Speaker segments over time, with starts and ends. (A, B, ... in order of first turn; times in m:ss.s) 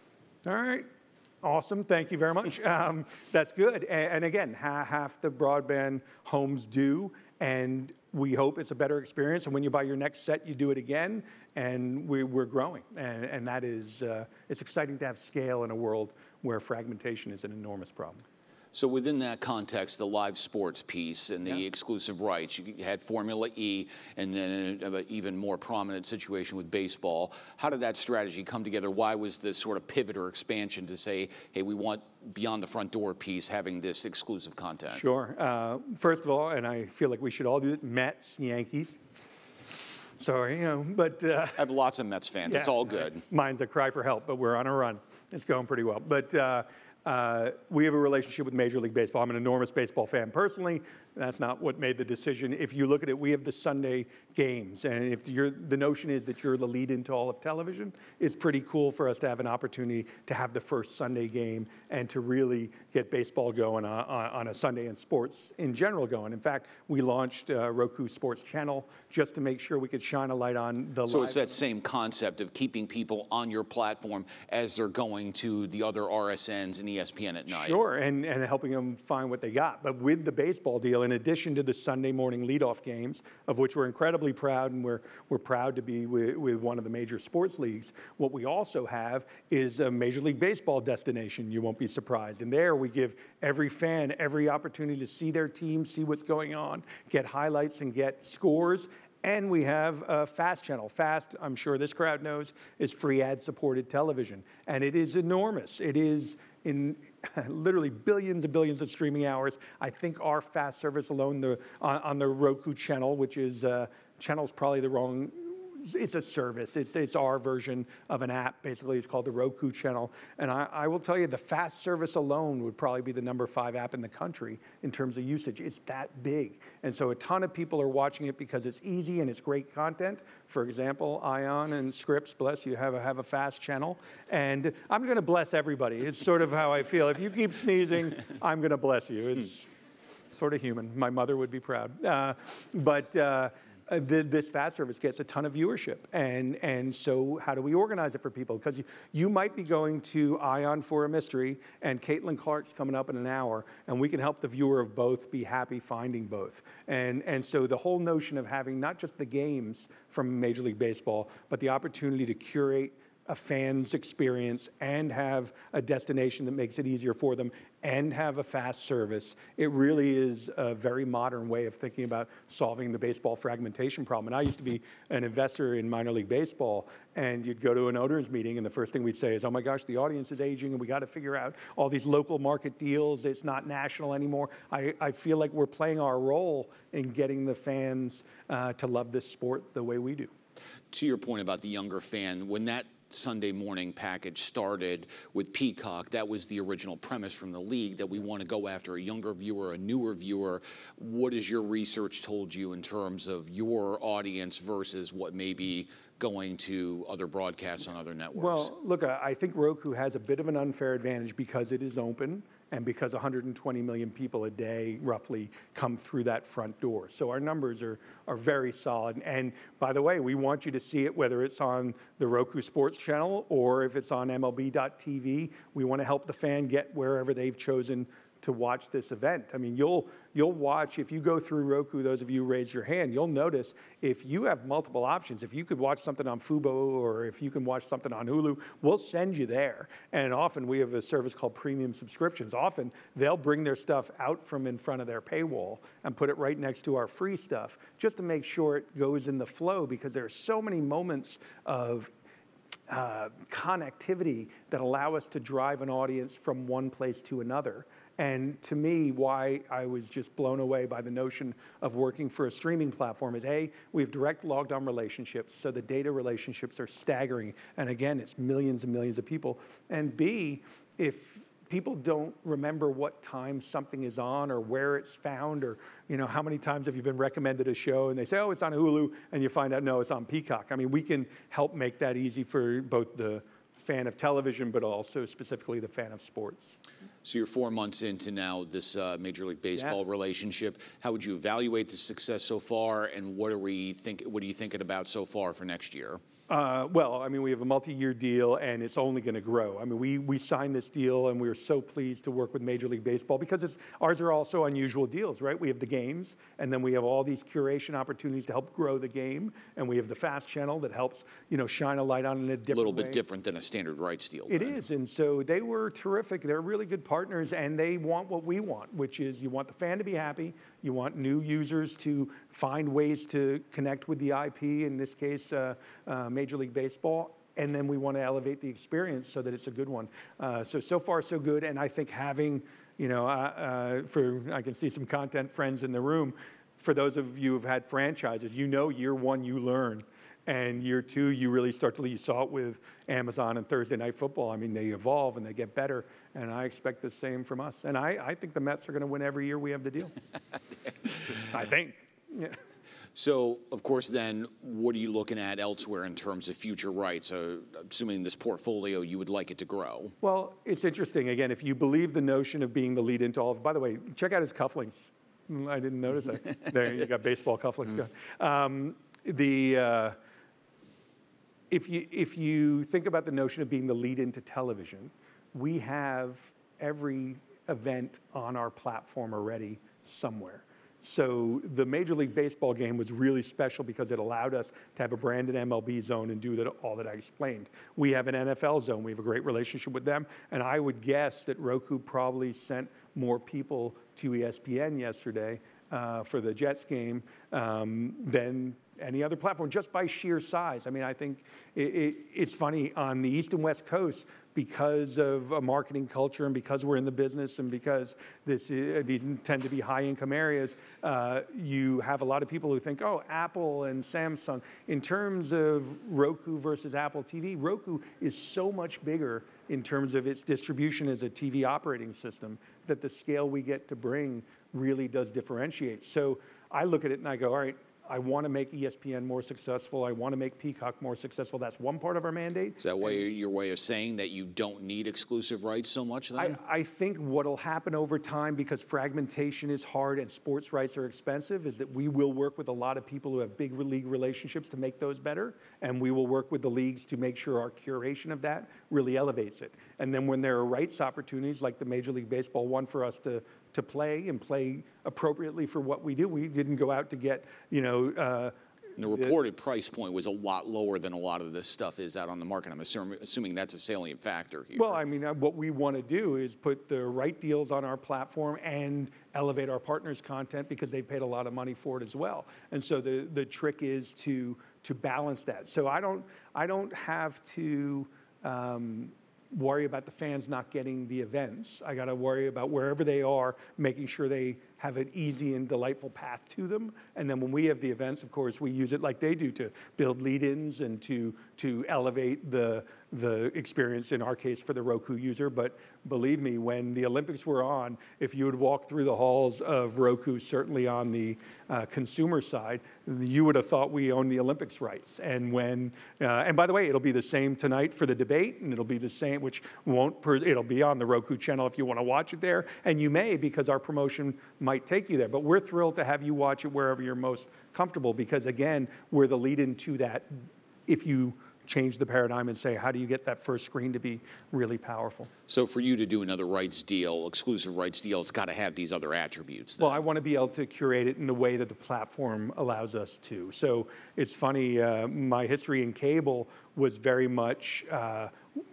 0:00.4-0:00.9 A
0:01.4-0:18.2 A
0:18.7-0:35.0 B
0:34.9-0:39.0 A
0:40.2-0:41.6 A
0:41.6-0:43.2 B
0:42.4-1:11.5 A
1:11.1-1:17.8 B
1:17.5-2:19.7 A
2:20.3-3:10.3 A
3:10.9-3:28.7 B
3:28.3-4:12.1 A
4:12.9-4:46.8 A
4:47.2-4:56.2 B
4:56.5-5:13.2 A
5:12.7-5:14.8 B
5:14.5-5:50.1 A
5:51.2-5:52.6 A
5:53.1-6:00.1 B
6:00.2-6:10.2 A
6:11.7-7:13.2 A
7:12.8-7:16.6 B
7:16.4-7:39.3 A
7:39.0-7:45.0 B
7:44.7-8:45.3 A
8:45.5-8:50.0 B
8:49.8-8:58.3 A